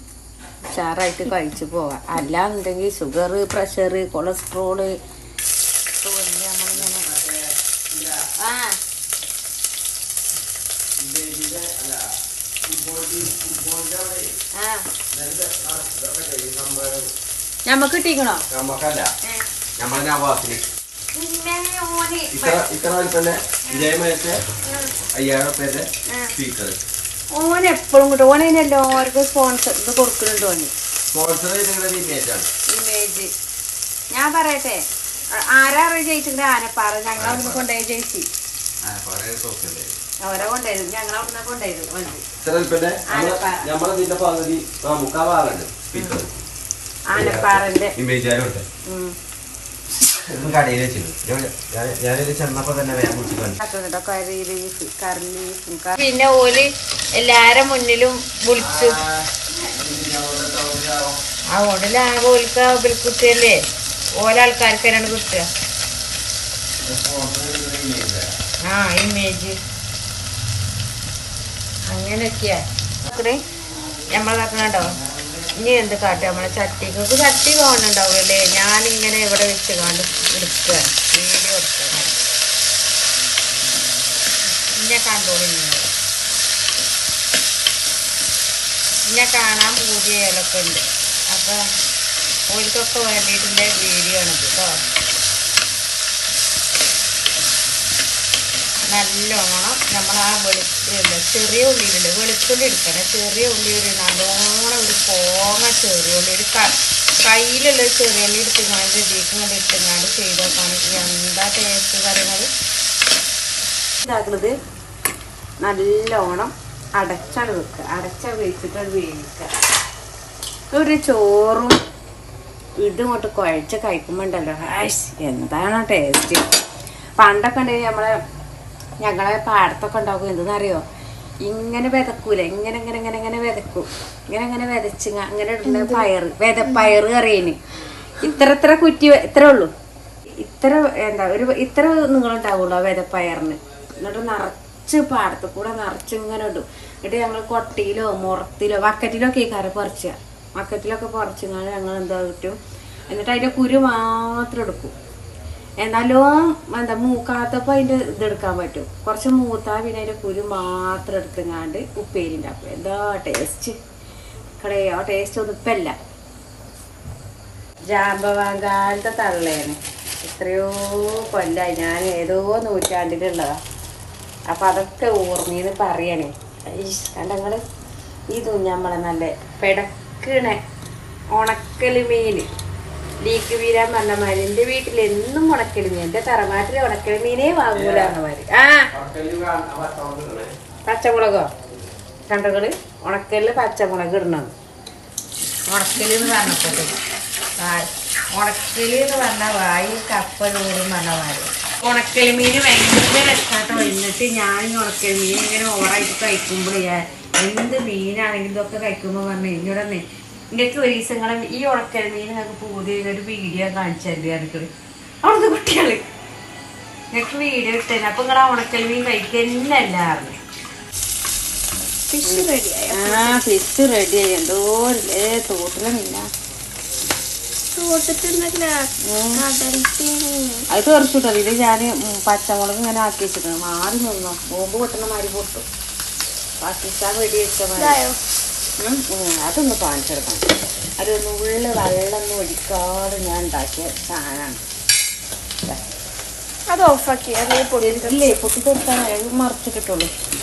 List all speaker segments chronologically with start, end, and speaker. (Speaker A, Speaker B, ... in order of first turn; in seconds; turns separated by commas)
Speaker A: 0.6-5.0, Speaker A: 6.0-7.1, Speaker B: 6.9-8.2, Speaker A: 8.4-8.8, Speaker B: 11.0-12.1, Speaker B: 12.6-14.3, Speaker A: 14.6-14.9, Speaker B: 15.1-17.1, Speaker A: 17.7-18.4, Speaker B: 18.5-19.1, Speaker B: 19.8-20.7, Speaker A: 21.2-22.6, Speaker B: 22.3-24.4, Speaker B: 25.1-26.8, Speaker A: 27.3-30.7, Speaker B: 31.1-32.5, Speaker A: 32.7-33.3, Speaker A: 34.1-38.3, Speaker B: 37.1-37.6, Speaker B: 38.8-40.0, Speaker A: 40.2-42.2, Speaker B: 42.4-46.3, Speaker A: 43.1-43.7, Speaker A: 47.1-48.0, Speaker B: 47.1-48.6, Speaker A: 48.9-49.1, Speaker B: 50.1-53.6, Speaker A: 53.6-59.0, Speaker B: 58.5-61.2, Speaker A: 61.5-63.6, Speaker A: 64.2-65.5, Speaker B: 66.8-68.3, Speaker A: 68.6-69.6, Speaker A: 71.9-73.4, Speaker A: 74.1-75.0, Speaker A: 75.5-82.2, Speaker A: 84.7-85.9, Speaker A: 89.1-91.7, Speaker A: 92.5-94.8, Speaker A: 98.9-112.5, Speaker A: 114.0-114.6, Speaker A: 115.6-119.5, Speaker A: 120.7-121.8, Speaker A: 122.8-126.5, Speaker A: 127.2-128.2, Speaker A: 129.0-130.8, Speaker A: 131.4-137.6, Speaker A: 138.2-139.7, Speaker A: 140.4-152.6, Speaker A: 153.1-154.9, Speaker A: 155.8-163.8, Speaker A: 164.6-166.0, Speaker A: 167.9-173.6, Speaker A: 174.5-177.6, Speaker A: 178.3-180.6, Speaker A: 181.3-182.5, Speaker A: 183.2-188.9, Speaker B: 187.7-188.2, Speaker B: 188.9-190.5, Speaker A: 190.8-191.5, Speaker A: 192.3-194.5, Speaker A: 195.7-197.0, Speaker A: 197.6-214.7, Speaker A: 215.2-216.0, Speaker A: 217.1-220.4, Speaker C: 222.1-223.4, Speaker A: 222.2-226.3, Speaker C: 227.7-230.7, Speaker A: 229.0-229.5, Speaker A: 230.7-235.7, Speaker A: 236.6-238.0, Speaker C: 237.8-238.2, Speaker A: 238.8-240.4, Speaker A: 241.0-244.7, Speaker C: 246.7-248.3, Speaker A: 247.8-250.1